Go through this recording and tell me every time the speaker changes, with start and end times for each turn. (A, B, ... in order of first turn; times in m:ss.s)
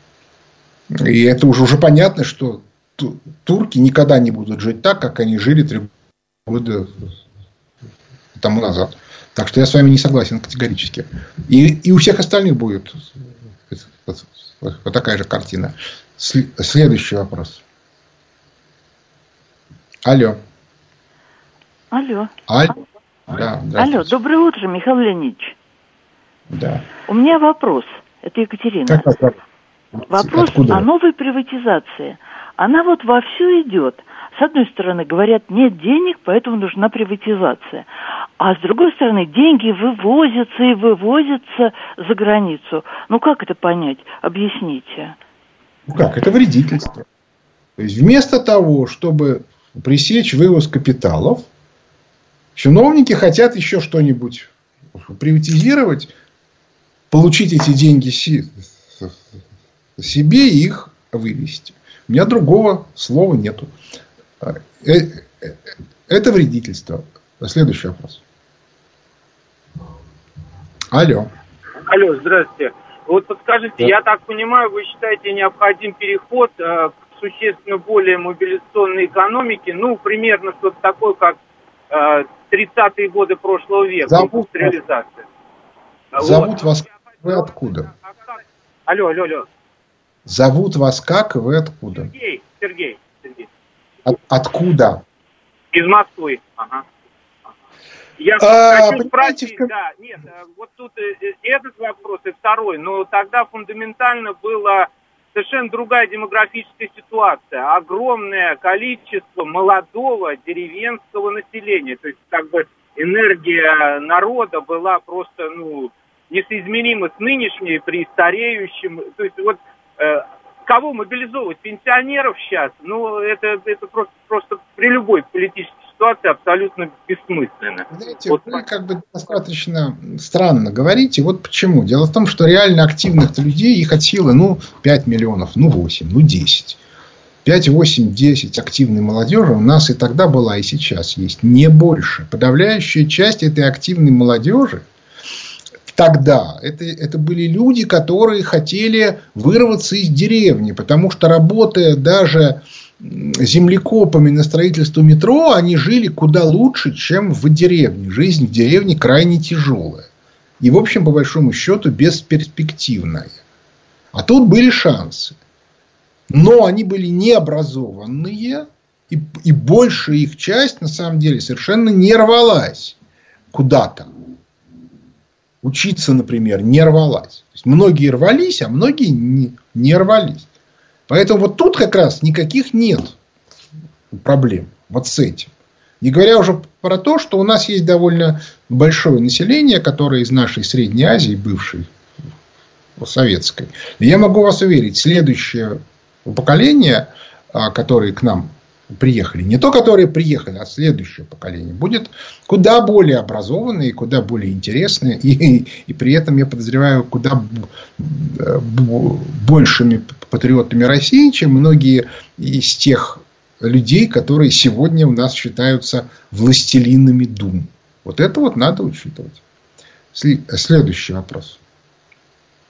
0:00.9-0:05.9 A
0:06.5-0:07.1 A
0:08.4-0:13.1 A
0:13.7-0:17.6 A
0:20.0-0:20.4 A
0:21.9-0:22.3 B
0:22.5-0:22.8 A
0:23.3-0:24.1 A
0:23.7-0:25.5 B
0:26.5-0:26.8 A
0:27.0-0:29.1 B
0:28.9-0:29.4 A
0:30.1-0:30.8 A
0:30.1-0:45.2 B
0:45.9-0:47.0 A
0:47.8-0:51.5 A
0:52.6-0:56.1 A
0:57.1-0:59.1 A
1:00.0-1:03.7 A
1:04.4-1:05.6 A
1:06.1-1:08.2 A
1:10.9-1:11.3 A
1:11.9-1:21.4 C
1:21.9-1:25.2 C
1:24.1-1:24.7 A
1:26.1-1:29.4 C
1:26.2-1:27.9 A
1:30.3-1:32.1 A
1:31.9-1:33.5 C
1:34.0-1:35.0 A
1:35.7-1:36.8 C
1:38.2-2:08.6 C
1:38.4-1:39.7 A
2:07.9-2:16.8 A
2:17.4-2:24.8 A
2:25.9-2:40.1 A
2:40.6-2:43.4 A
2:44.1-2:45.3 A
2:46.3-2:53.0 A
2:53.5-2:54.1 A
2:55.6-3:00.5 A
3:01.1-3:03.2 A
3:04.1-3:11.9 A
3:13.0-3:39.4 A
3:40.1-3:41.6 A